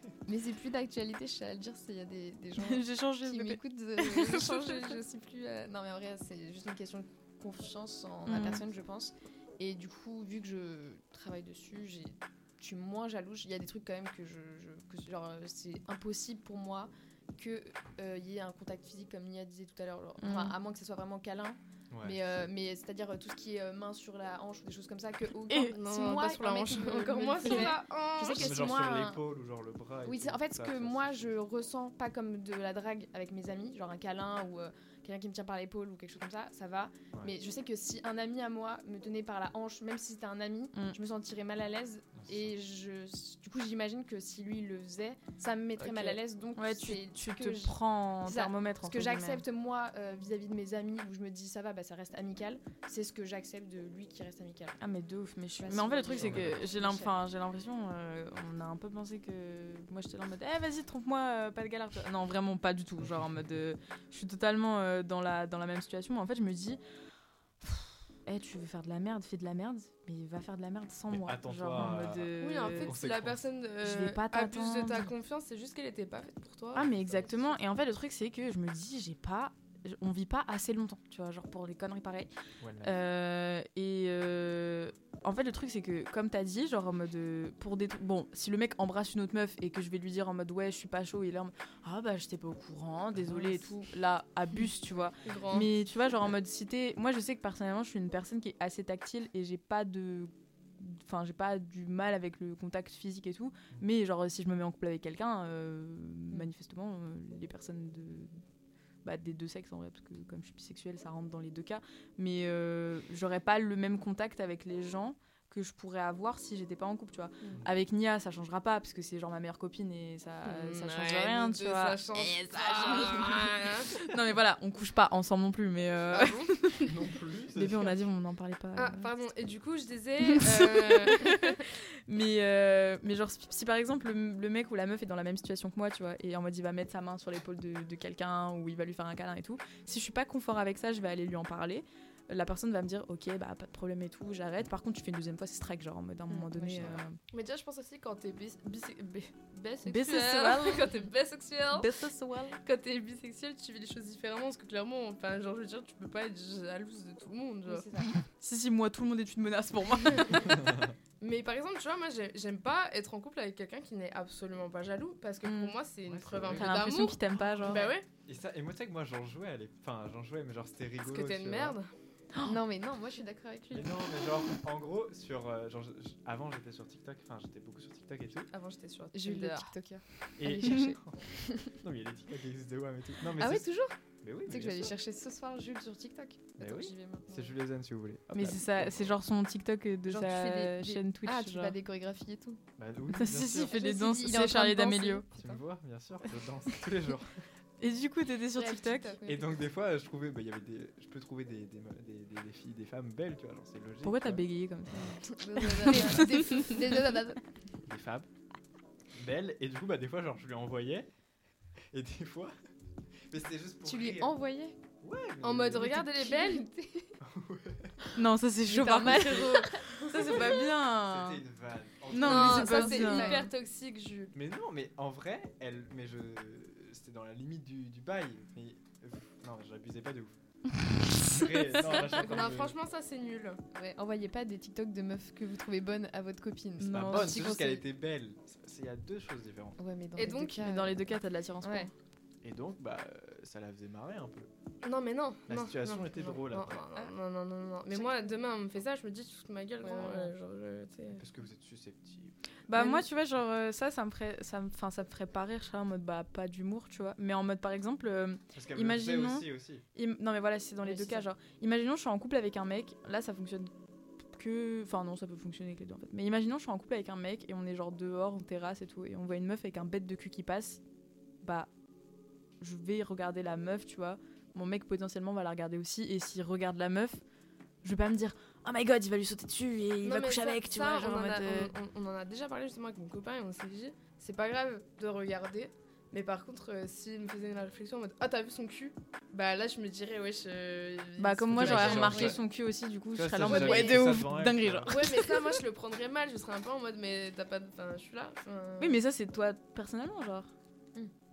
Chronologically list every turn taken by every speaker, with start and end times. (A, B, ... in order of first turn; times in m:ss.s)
0:00.2-0:29.2 A
0:02.6-0:05.0 B
0:08.2-0:08.6 B
0:20.2-0:20.5 B
0:21.9-0:22.4 C
0:25.4-0:25.8 B
0:25.7-0:28.6 D
0:27.4-0:27.7 B
0:28.2-0:31.4 C
0:30.0-0:54.8 A
0:42.1-0:42.5 C
0:45.8-0:49.4 B
0:54.8-1:06.8 B
0:55.6-0:57.2 A
0:56.2-0:56.6 C
1:07.6-1:12.9 B
1:11.1-1:13.4 C
1:12.4-1:16.9 D
1:13.8-1:15.1 B
1:16.7-1:22.3 B
1:16.9-1:17.6 A
1:22.6-1:23.0 C
1:22.8-1:48.4 B
1:35.2-1:35.7 D
1:49.0-2:06.9 B
2:00.4-2:04.0 D
2:06.1-2:06.6 D
2:06.8-2:08.0 C
2:07.5-2:09.1 B
2:08.8-2:11.6 D
2:10.3-2:27.2 B
2:26.3-2:27.0 A
2:26.8-2:27.0 C
2:27.3-2:31.9 D
2:29.9-2:30.9 B
2:31.7-2:32.6 B
2:32.6-2:37.9 D
2:37.7-2:38.1 A
2:38.0-2:40.5 B
2:40.1-2:40.5 D
2:41.2-2:48.0 D
2:45.4-2:45.7 B
2:46.0-2:46.9 C
2:46.4-2:47.9 B
2:48.2-2:51.8 C
2:51.0-2:51.9 D
2:52.4-2:54.3 A
2:53.7-2:58.5 C
2:58.5-2:59.7 D
2:59.1-3:01.8 A
3:00.4-3:03.7 C
3:03.4-3:04.0 A
3:04.2-3:04.9 C
3:04.5-3:07.6 A
3:06.6-3:09.2 C
3:08.3-3:11.7 B
3:10.1-3:12.6 A
3:12.8-3:13.7 C
3:13.1-3:15.2 B
3:13.6-3:15.6 A
3:15.3-3:17.4 C
3:17.8-3:19.2 B
3:18.5-3:19.5 A
3:19.2-3:24.5 C
3:24.0-3:26.8 B
3:24.9-3:27.4 A
3:27.8-3:28.3 C
3:29.1-3:31.1 C
3:31.9-3:32.5 C
3:33.3-3:34.3 C
3:33.8-3:34.8 A
3:35.0-3:35.9 C
3:35.4-3:36.7 D
3:35.8-3:37.1 A
3:37.2-3:38.0 C
3:38.2-3:41.4 B
3:38.7-3:40.6 A
3:38.9-3:40.5 D
3:40.9-3:42.9 C
3:42.1-3:43.4 B
3:42.2-3:44.3 D
3:42.5-3:43.5 A
3:44.3-3:50.4 C
3:51.1-3:52.8 C
3:51.8-3:53.6 D
3:53.7-3:57.8 A
3:56.8-3:57.6 B
3:56.9-3:59.8 C
3:59.8-4:01.9 A
4:00.2-4:00.7 D
4:00.6-4:01.9 B
4:02.4-4:04.5 C
4:04.8-4:11.2 D
4:05.5-4:06.9 C
4:07.9-4:08.4 A
4:09.8-4:10.3 A
4:11.2-4:12.4 C
4:12.7-4:23.7 B
4:12.7-4:13.0 A
4:18.5-4:19.8 C
4:20.8-4:21.3 A
4:24.3-4:30.8 B
4:31.4-4:31.7 B
4:32.6-4:37.2 B
4:37.8-4:41.7 B
4:40.0-4:52.4 D
4:51.2-4:55.5 B
4:51.5-4:52.4 C
4:53.1-4:55.0 C
4:53.4-4:54.1 D
4:53.5-4:53.9 A
4:54.9-4:59.0 D
4:58.8-5:00.5 B